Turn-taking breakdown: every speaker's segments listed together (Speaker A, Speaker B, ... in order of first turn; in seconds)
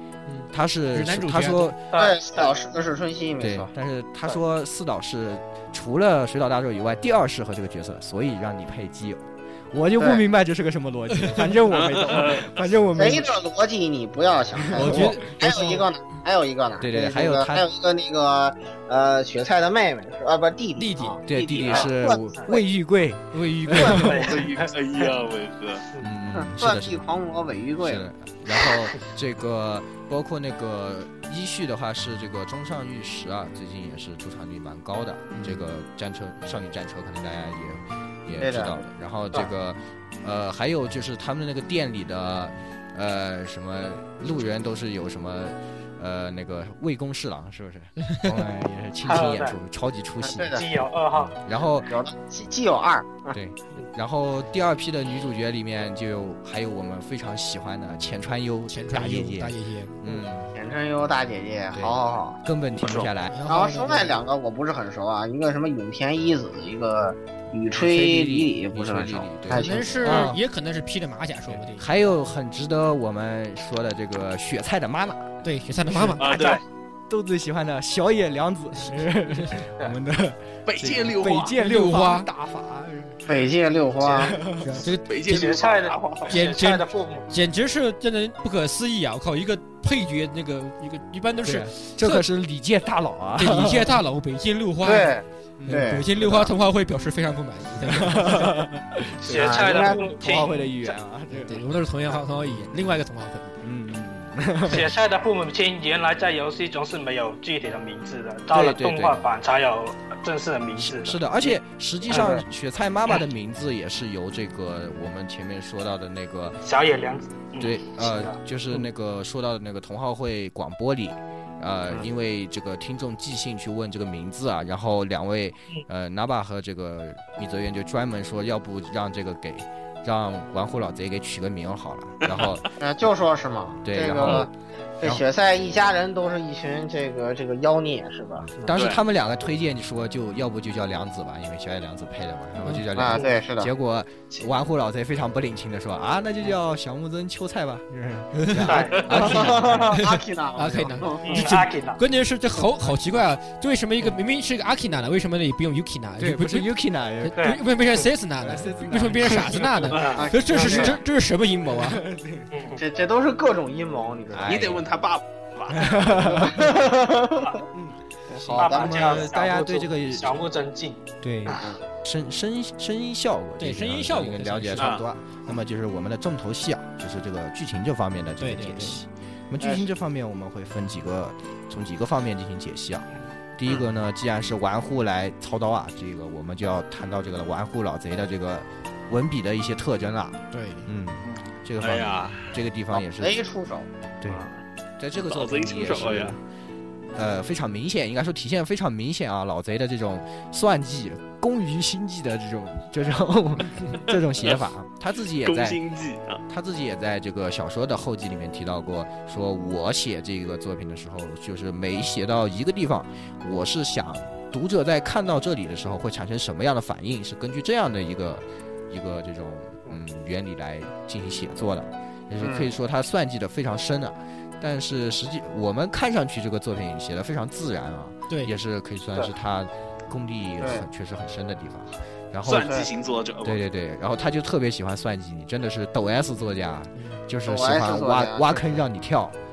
Speaker A: 0.3-1.7, 11.2-11.4, 14.8-15.8, 20.8-21.2, 23.3-24.4, 35.3-35.6, 58.7-60.0, 63.3-64.2, 69.5-71.9, 75.4-76.2, 81.6-82.3, 84.6-85.5, 86.3-92.2, 93.4-95.1, 95.7-98.6, 101.3-103.6, 148.4-162.0, 173.6-174.9, 178.4-179.0, 190.5-190.9, 237.0-237.2
Speaker B: 0.5-1.8, 3.4-13.3, 14.7-15.6, 16.8-17.7, 21.3-24.3, 26.0-27.1, 27.8-50.6, 51.2-51.9, 53.3-60.5, 61.7-63.4, 67.8-70.4, 71.5-83.3, 84.1-84.8, 91.4-94.0, 95.6-96.0, 97.9-101.6, 103.6-104.9, 108.5-109.2, 110.8-116.6, 117.6-132.7, 133.8-134.5, 138.6-150.0, 156.2-157.5, 158.4-160.0, 161.7-162.5, 164.3-164.9, 165.7-166.8, 167.7-170.4, 171.2-193.4, 194.2-194.5, 195.0-196.4, 197.1-205.8, 206.5-232.8, 233.4-239.4
Speaker C: 1.9-2.6, 23.9-24.5, 49.0-49.6, 50.5-51.4, 85.3-87.3, 99.2-100.6, 104.7-111.2, 116.6-118.4, 148.6-149.3, 151.2-152.0, 157.4-157.6, 159.9-160.9, 162.5-162.8, 168.6-171.0
Speaker D: 1.9-3.7, 12.9-22.6, 26.4-28.0, 38.4-38.9, 50.2-50.6, 51.9-53.4, 60.5-62.4, 63.5-70.3, 83.3-84.4, 94.8-96.5, 99.3-100.1, 112.1-112.4, 132.8-138.6, 142.9-143.7, 149.2-151.4, 160.1-161.0, 162.8-164.7, 166.4-167.6, 168.6-169.3, 179.6-179.9, 192.9-194.5, 222.4-222.8, 230.6-230.9, 237.5-238.8
Speaker E: 11.7-12.5, 24.0-25.9, 62.8-63.1, 76.2-76.6, 80.7-81.5, 85.1-86.4, 132.2-132.6, 138.7-139.0, 164.5-166.1, 174.8-175.0, 191.8-192.5, 195.3-196.3, 205.4-206.4, 232.4-233.6